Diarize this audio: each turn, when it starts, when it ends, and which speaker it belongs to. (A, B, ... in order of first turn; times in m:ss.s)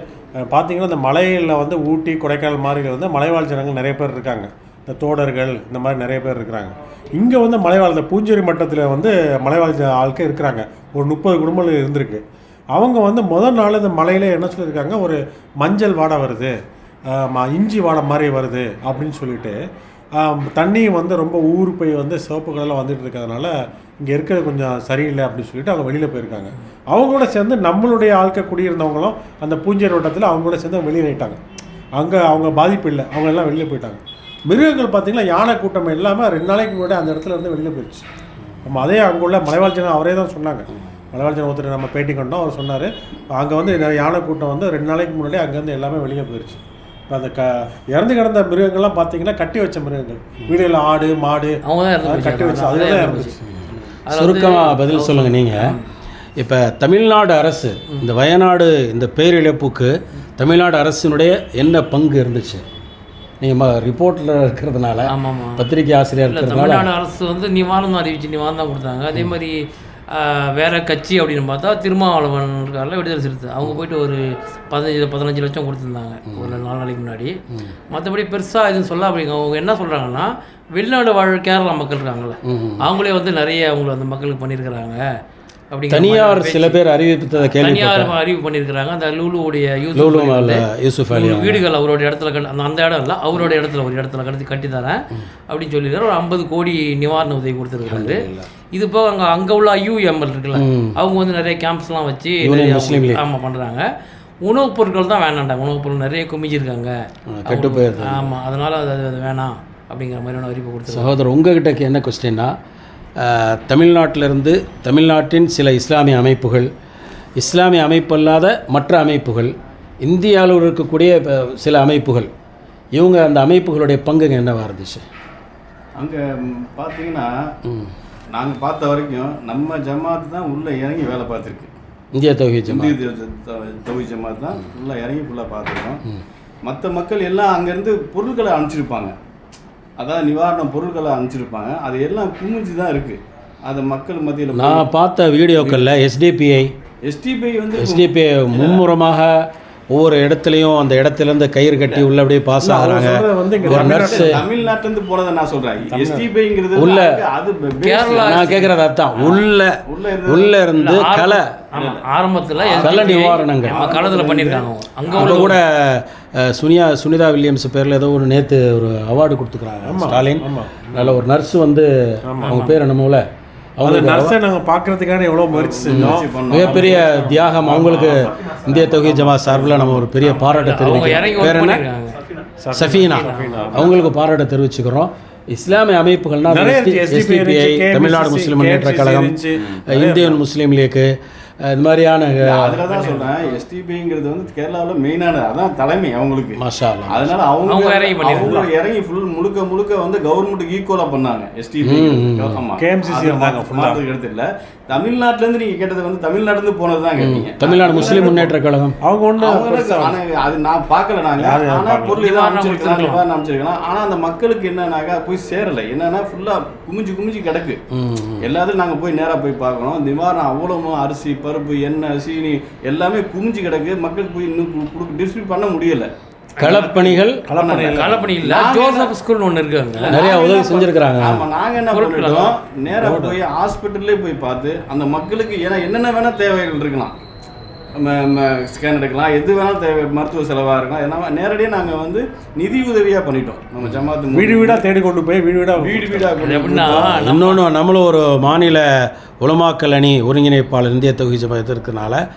0:00.5-0:12.2 A
0:12.8-0:16.5 A
0:17.1-0:19.6 A
0:20.2-0:31.4 A
0:32.0-0:38.1 A
0:38.6-0:53.3 A
0:51.6-0:53.4 B
0:54.1-0:55.9 B
0:54.1-0:55.8 C
0:56.4-1:02.6 C
1:03.4-1:06.9 C
1:05.1-1:05.6 B
1:06.3-1:09.6 B
1:10.1-1:17.4 B
1:16.3-1:16.6 C
1:17.9-1:25.0 B
1:22.4-1:22.8 C
1:25.7-1:26.8 B
1:25.9-1:28.1 C
1:27.4-1:35.0 B
1:30.0-1:31.6 C
1:35.5-1:43.9 B
1:37.9-1:38.5 C
1:40.5-1:41.0 C
1:42.4-1:43.2 C
1:44.4-1:46.9 B
1:47.3-1:48.2 C
1:47.5-1:51.1 B
1:50.9-1:52.6 C
1:53.2-1:56.7 C
1:57.4-2:02.3 C
2:03.0-2:05.0 C
2:06.0-2:07.3 D
2:07.7-2:07.9 C
2:08.3-2:11.7 D
2:12.1-2:13.0 C
2:12.7-2:16.0 D
2:16.6-2:19.1 D
2:20.0-2:24.9 D
2:24.5-2:26.7 C
2:25.6-2:25.9 D
2:27.0-2:28.8 D
2:27.8-2:34.4 C
2:32.6-2:34.4 A
2:33.6-2:38.5 D
2:35.9-2:36.3 A
2:36.8-2:37.2 C
2:37.8-2:38.8 B
2:38.2-2:41.5 C
2:39.1-2:40.6 D
2:40.8-2:45.6 B
2:41.8-2:42.0 D
2:42.6-2:43.1 D
2:42.8-2:43.8 C
2:43.6-2:45.5 D
2:45.2-2:51.9 C
2:49.8-2:51.2 A
2:52.3-2:52.5 A
2:52.4-2:52.8 B
2:52.4-2:53.2 C
2:53.8-2:54.4 C
2:53.8-3:00.4 A
2:55.5-2:57.0 D
2:55.9-3:01.8 C
3:00.4-3:02.2 B
3:02.6-3:03.9 A
3:02.7-3:09.3 C
3:02.8-3:03.7 B
3:06.5-3:10.4 A
3:09.9-3:11.1 C
3:11.6-3:12.8 C
3:12.4-3:28.5 D
3:12.9-3:13.6 B
3:16.6-3:17.3 C
3:17.6-3:18.6 B
3:18.3-3:18.7 A
3:21.8-3:22.6 C
3:22.8-3:24.0 A
3:27.2-3:29.0 C
3:27.9-3:28.5 A
3:29.0-3:30.2 A
3:29.4-3:37.8 D
3:31.4-3:32.2 A
3:32.1-3:33.2 B
3:37.9-3:38.5 C
3:38.4-3:49.1 D
3:46.6-3:47.4 C
3:47.4-3:48.2 A
3:47.9-3:50.2 B
3:49.9-3:57.2 D
3:50.1-3:51.4 C
3:51.9-3:52.6 B
3:53.0-3:53.4 A
3:58.0-4:04.8 D
4:04.3-4:06.4 A
4:05.8-4:07.2 D
4:06.4-4:07.6 B
4:06.9-4:12.2 C